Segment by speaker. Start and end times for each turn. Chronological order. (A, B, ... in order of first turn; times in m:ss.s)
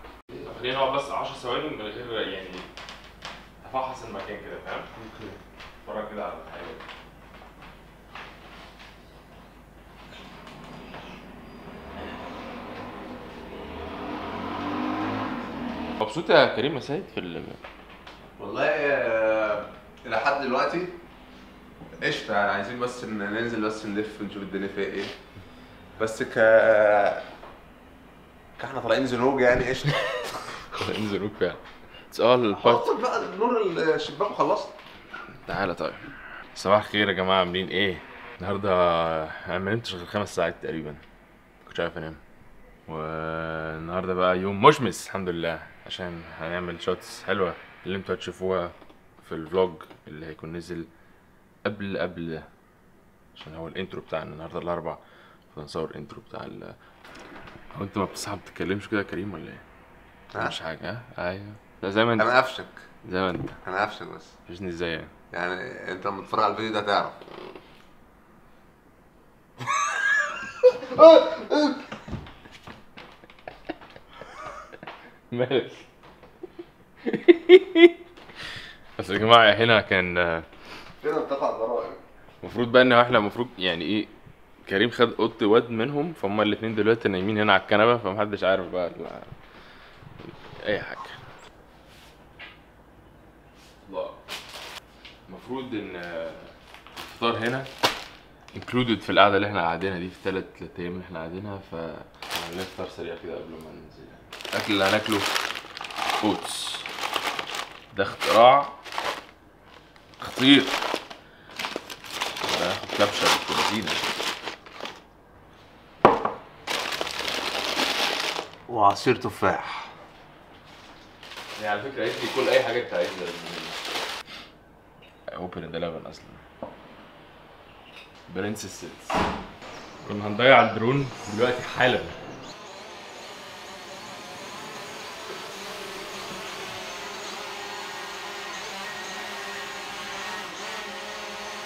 0:00.3-0:02.7 A
0:03.6-0:04.9 A
0:05.0-0:05.4 B
0:05.8-0:06.8 A
0:16.0-0:17.6 A
0:18.4-0:20.9 B
0:22.0-0:25.1 B
0:26.0-0:27.2 B
0:28.6-0:30.3 B
0:30.7-0:31.6 A
0:32.1-0:32.9 A
0:32.5-0:34.7 B
0:35.4-0:41.0 A
0:41.6-0:42.2 A
0:42.9-0:50.9 A
0:51.6-0:52.4 A
0:53.3-0:56.7 A
0:57.7-0:59.6 A
1:00.4-1:02.3 A
1:02.2-1:02.8 B
1:03.0-1:03.6 A
1:03.6-1:04.3 B
1:04.5-1:05.1 A
1:05.3-1:07.2 B
1:10.7-1:11.8 B
1:15.3-1:15.8 A
1:17.0-1:17.9 A
1:19.0-1:20.4 A
1:21.0-1:22.0 B
1:22.4-1:24.1 A
1:24.6-1:29.3 A
1:30.2-1:31.2 A
1:33.8-1:34.2 A
1:35.3-1:37.7 A
1:38.5-1:45.3 A
1:46.2-1:46.9 A
1:47.9-1:48.7 A
1:50.2-1:50.8 A
1:52.4-1:54.0 A
1:58.7-1:59.9 B
2:01.6-2:03.8 A
2:05.3-2:06.4 A
2:08.3-2:09.2 A
2:10.0-2:12.1 A